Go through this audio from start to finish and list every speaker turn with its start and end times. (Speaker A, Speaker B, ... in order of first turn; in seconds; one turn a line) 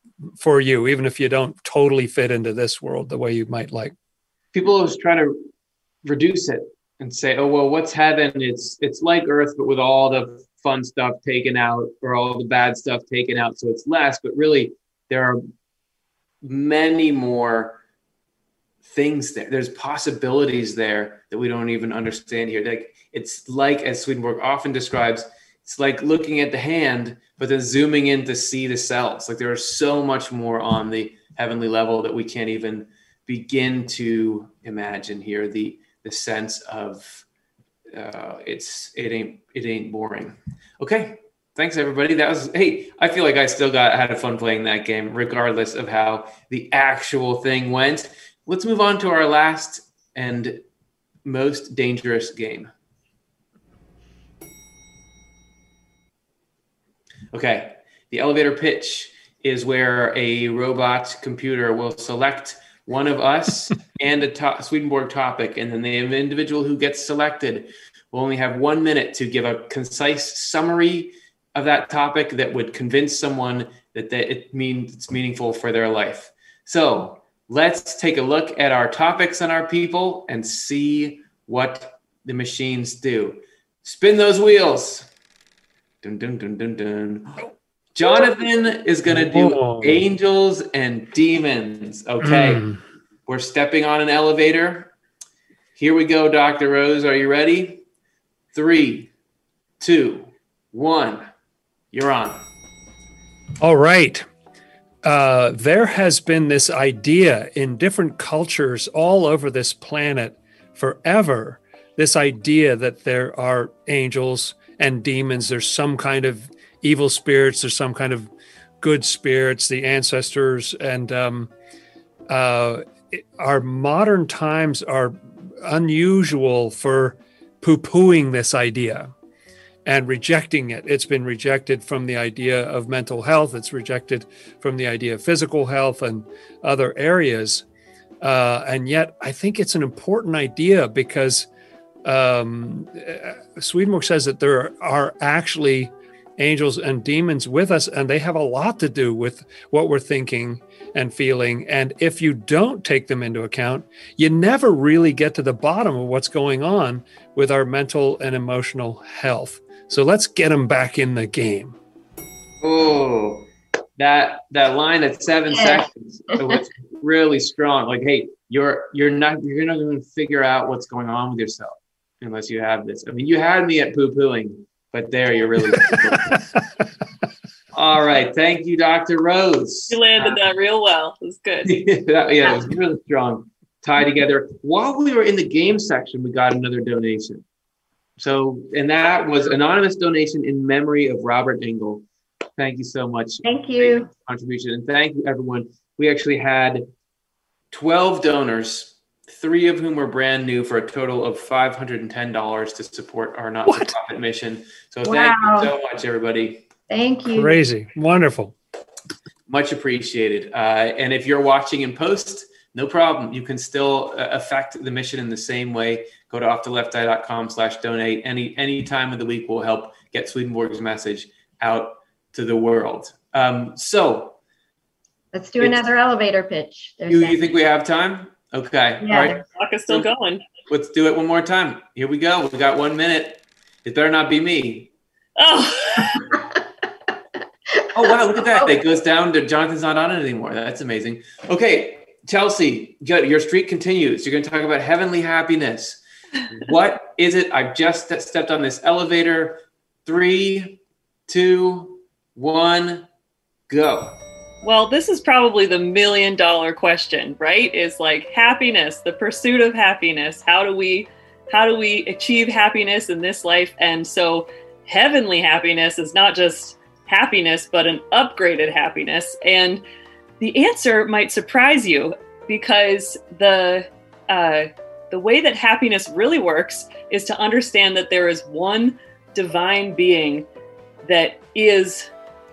Speaker A: 0.3-3.9
Speaker B: 4.5-5.3
Speaker B: 6.0-15.4
Speaker B: 16.4-17.8
Speaker B: 18.8-37.2
Speaker B: 37.9-50.6
Speaker B: 51.2-52.7
Speaker B: 57.3-85.1
Speaker B: 86.0-87.4
Speaker B: 87.9-92.7
Speaker A: 89.1-90.0
Speaker A: 92.2-92.8
Speaker B: 93.3-94.9
Speaker B: 95.8-97.8
Speaker B: 98.5-99.1
Speaker B: 99.8-101.2
Speaker B: 101.9-102.4
Speaker A: 103.6-104.3
Speaker A: 105.0-118.3
Speaker A: 118.8-121.5
Speaker A: 122.3-129.1
Speaker A: 129.8-137.6
Speaker A: 138.2-141.5
Speaker A: 142.0-161.8
Speaker B: 162.6-176.4
Speaker C: 165.6-165.8
Speaker A: 175.9-176.3
Speaker B: 177.7-180.4
Speaker D: 179.9-181.8
Speaker B: 181.6-187.4
Speaker B: 188.2-192.0
Speaker B: 192.6-196.8
Speaker C: 193.4-194.1
Speaker B: 197.7-206.6
Speaker A: 203.7-203.9
Speaker C: 205.0-205.7
Speaker C: 206.9-207.7
Speaker A: 207.3-208.5
Speaker B: 209.5-224.4
Speaker C: 225.3-227.6
Speaker B: 227.1-230.1
Speaker C: 229.0-229.4
Speaker D: 229.4-230.4
Speaker B: 230.6-234.9
Speaker D: 235.4-236.3
Speaker B: 237.9-253.1
Speaker B: 253.7-254.2
Speaker D: 254.6-269.8
Speaker D: 270.4-280.5
Speaker D: 281.0-282.1